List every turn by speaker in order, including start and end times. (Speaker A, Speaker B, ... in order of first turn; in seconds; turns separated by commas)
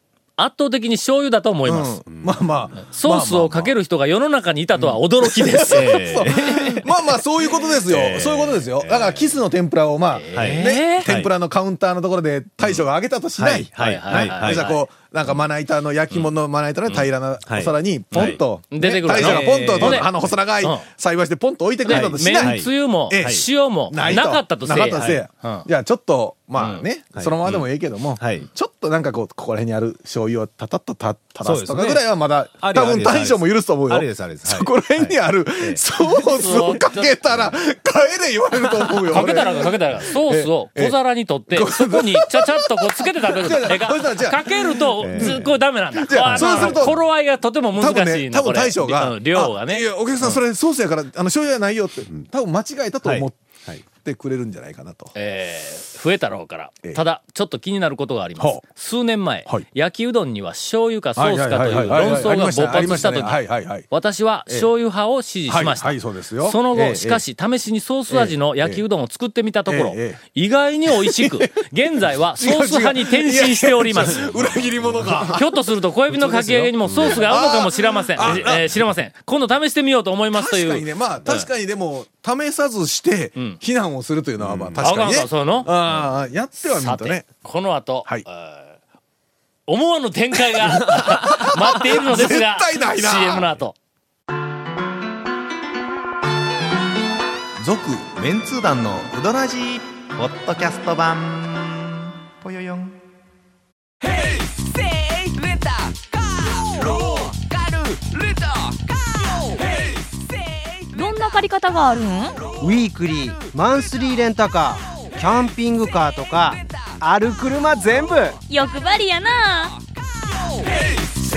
Speaker A: 0.4-2.0, Speaker B: 1.6-3.7, Speaker C: 2.1-2.7, Speaker A: 2.8-6.8, Speaker B: 4.8-41.0, Speaker C: 5.7-6.9, Speaker C: 7.5-9.3, Speaker A: 10.1-11.1, Speaker C: 10.3-11.3, Speaker C: 13.4-14.7, Speaker A: 13.8-14.8, Speaker C: 17.5-18.4, Speaker A: 18.1-20.1, Speaker C: 19.1-20.3, Speaker A: 21.9-25.7, Speaker C: 21.9-22.7, Speaker C: 24.9-25.2, Speaker A: 26.6-26.9, Speaker C: 27.1-27.6, Speaker C: 28.2-28.5, Speaker C: 31.4-32.1, Speaker C: 32.6-35.8, Speaker A: 36.3-37.1, Speaker A: 39.1-50.4, Speaker B: 41.5-47.0, Speaker C: 45.0-45.5, Speaker C: 46.1-47.0, Speaker B: 47.8-53.4, Speaker C: 53.0-53.8, Speaker B: 53.9-55.1, Speaker A: 55.1-74.3, Speaker B: 58.4-58.6, Speaker B: 61.2-63.9, Speaker B: 65.5-67.2, Speaker B: 68.1-68.8, Speaker B: 69.7-70.2, Speaker B: 70.9-71.7, Speaker B: 72.3-78.8, Speaker C: 74.3-75.2, Speaker A: 75.2-81.5, Speaker C: 76.8-77.3, Speaker C: 78.2-78.8, Speaker B: 80.3-87.3, Speaker C: 84.4-84.9, Speaker A: 84.8-85.7, Speaker A: 86.6-88.8, Speaker A: 89.7-93.8, Speaker B: 90.5-93.5, Speaker D: 97.6-103.0, Speaker E: 110.9-112.4, Speaker F: 112.6-118.4, Speaker E: 118.5-119.8